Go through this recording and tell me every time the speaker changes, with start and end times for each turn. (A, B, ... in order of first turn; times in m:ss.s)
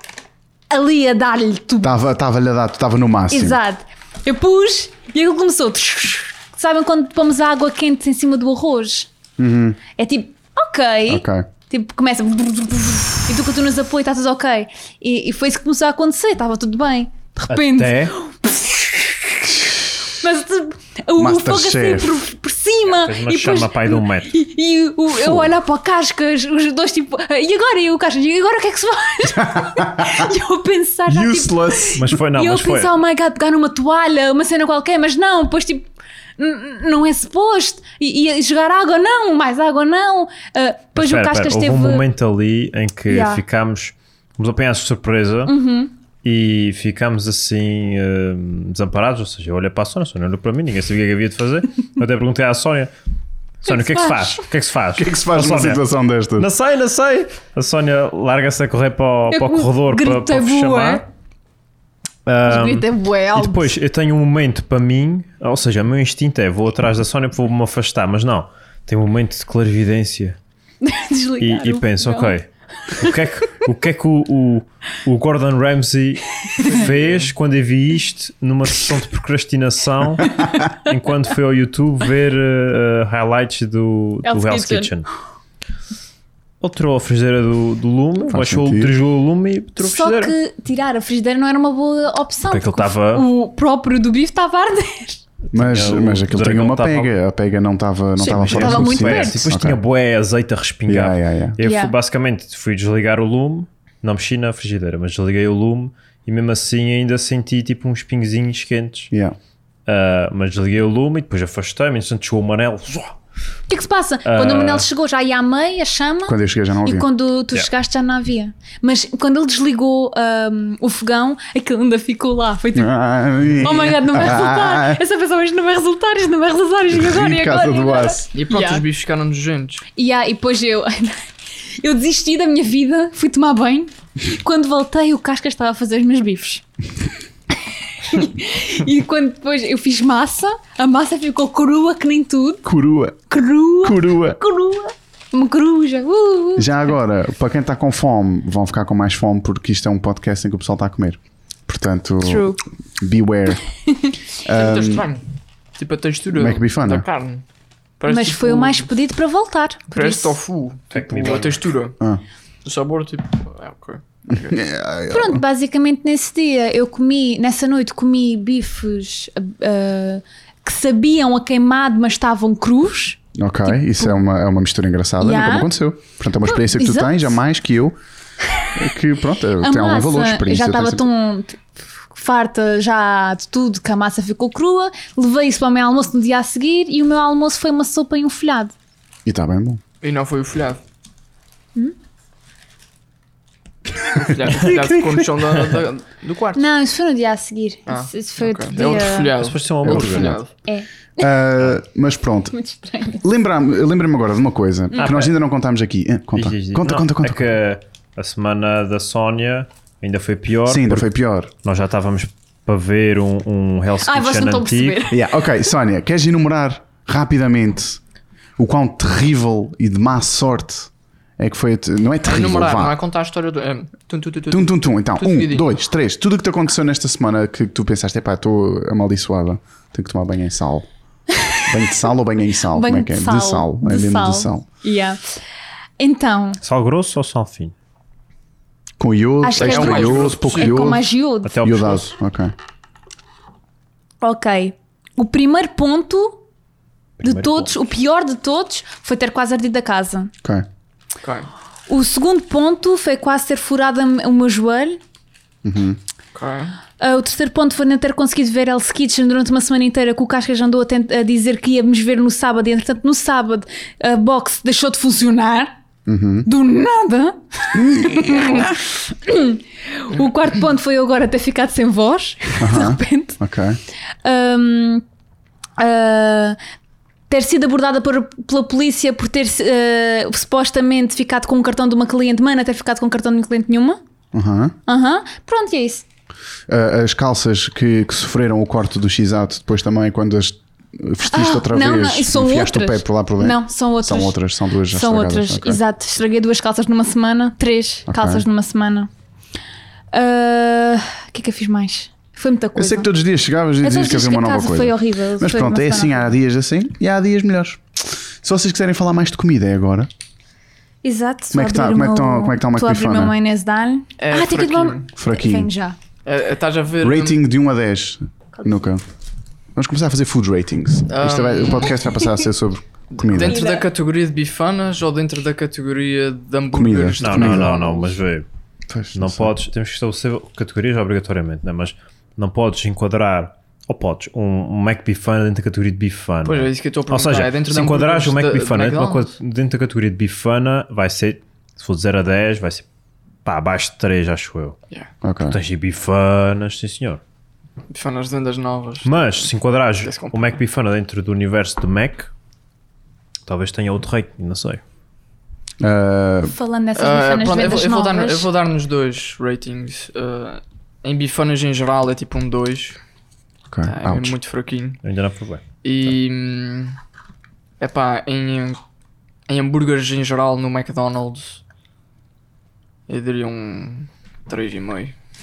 0:00.7-0:02.0 A
0:01.8-0:03.6 B
0:03.3-0:09.1 A
0:09.4-0:09.8 B
0:10.0-0:19.5 A
0:11.1-0:11.5 B
0:17.5-0:18.1 C
0:20.2-0:42.0 A
0:21.2-0:22.2 B
0:22.8-0:24.3 C
0:25.1-0:25.5 B
0:29.3-0:30.3 B
0:31.1-0:32.2 B
0:32.0-0:32.9 C
0:41.0-0:45.5 C
0:43.1-0:43.4 A
0:45.5-0:45.9 A
0:46.2-0:52.9 C
0:53.6-0:55.8 C
0:53.7-0:54.4 A
0:54.9-0:56.5 B
0:56.4-1:01.0 C
0:59.3-1:01.0 A
1:02.2-1:10.4 C
1:02.4-1:03.7 A
1:10.8-1:13.1 A
1:11.4-1:25.1 C
1:16.4-1:16.8 A
1:16.6-1:17.3 D
1:24.2-1:24.9 A
1:26.6-1:30.3 C
1:28.3-1:28.9 B
1:29.8-1:35.2 A
1:32.4-1:33.3 C
1:35.5-1:37.1 C
1:35.5-1:39.8 B
1:38.2-1:39.4 A
1:38.3-1:49.1 C
1:40.9-1:41.6 B
1:41.6-1:41.9 A
1:49.1-1:49.4 B
1:49.8-1:53.1 C
1:53.7-2:02.9 A
1:54.2-1:54.9 C
1:56.2-1:57.1 B
2:02.7-2:05.0 B
2:03.6-2:08.8 A
2:06.9-2:08.3 B
2:08.3-2:09.8 D
2:10.0-2:16.6 A
2:18.0-2:22.6 A
2:22.6-2:23.2 B
2:23.3-2:26.9 A
2:23.8-2:24.4 B
2:26.6-2:33.6 B
2:32.2-2:32.6 A
2:33.8-2:34.2 A
2:34.3-2:35.0 B
2:34.5-2:35.2 D
2:35.8-2:37.4 D
2:36.3-2:37.0 B
2:38.0-2:38.9 D
2:38.1-2:40.4 A
2:39.9-2:42.0 D
2:40.9-2:41.7 C
2:42.6-2:44.6 D
2:44.3-2:45.4 B
2:45.1-2:54.1 A
2:53.3-2:58.0 B
2:55.2-2:55.7 A
2:56.4-2:57.4 A
2:58.7-3:01.0 B
2:59.6-3:08.7 A
3:09.2-3:09.8 B
3:10.0-3:10.8 D
3:14.1-3:16.7 D
3:14.2-3:15.1 B
3:16.5-3:19.4 A
3:17.9-3:20.5 D
3:19.3-3:20.4 C
3:19.8-3:20.4 B
3:20.6-3:21.3 A
3:21.2-3:22.5 B
3:22.5-3:23.2 A
3:23.2-3:27.5 B
3:24.9-3:25.2 A
3:24.9-3:25.3 C
3:26.3-3:31.1 C
3:30.6-3:31.5 B
3:31.6-3:35.0 C
3:34.0-3:35.3 A
3:35.1-3:38.0 B
3:38.6-3:43.0 B
3:42.2-3:45.7 D
3:44.5-3:50.9 B
3:51.4-3:51.6 A
3:51.6-3:54.6 B
3:52.7-3:55.4 A
3:56.0-3:56.6 A
3:56.6-3:57.7 C
3:59.0-4:01.1 B
3:59.4-4:01.5 A
3:59.5-4:00.9 D
4:01.4-4:02.1 C
4:01.6-4:02.5 B
4:04.2-4:06.4 A
4:07.2-4:07.7 C
4:07.2-4:10.3 A
4:11.2-4:11.5 D
4:11.9-4:15.0 A
4:15.6-4:16.0 B
4:16.3-4:16.8 D
4:17.0-4:25.7 A
4:26.0-4:26.5 B
4:26.4-4:33.4 A
4:27.7-4:28.7 B
4:32.6-4:33.8 B
4:34.2-4:35.0 A
4:35.8-4:36.6 A
4:37.3-4:44.0 A
4:44.3-4:44.7 B
4:44.9-4:46.0 A
4:46.7-4:55.8 B
4:51.3-4:59.1 A
4:58.1-4:58.4 B
5:00.1-5:03.1 A
5:02.7-5:10.1 B
5:03.8-5:06.3 A
5:11.0-5:16.0 A
5:11.5-5:13.4 B
5:14.2-5:15.1 D
5:15.2-5:15.7 B
5:16.2-5:17.4 D
5:17.0-5:19.0 B
5:18.6-5:18.8 A
5:19.7-5:23.6 B
5:21.1-5:22.0 D
5:23.1-5:28.2 D
5:23.4-5:23.9 A
5:26.7-5:27.8 B
5:27.2-5:28.4 C
5:28.9-5:29.5 B
5:29.1-5:42.8 C
5:36.4-5:39.3 D
5:43.4-5:44.8 C
5:45.2-5:45.6 B
5:45.4-5:47.2 C
5:47.9-5:50.6 D
5:49.0-5:52.3 C
5:53.4-5:54.8 C
5:55.8-5:56.5 B
5:56.4-5:58.5 A
5:56.9-6:03.0 D
6:03.7-6:04.4 B
6:03.8-6:05.0 D
6:05.0-6:05.6 C
6:05.8-6:07.0 D
6:07.8-6:08.8 D
6:09.5-6:11.6 D
6:13.1-6:15.1 D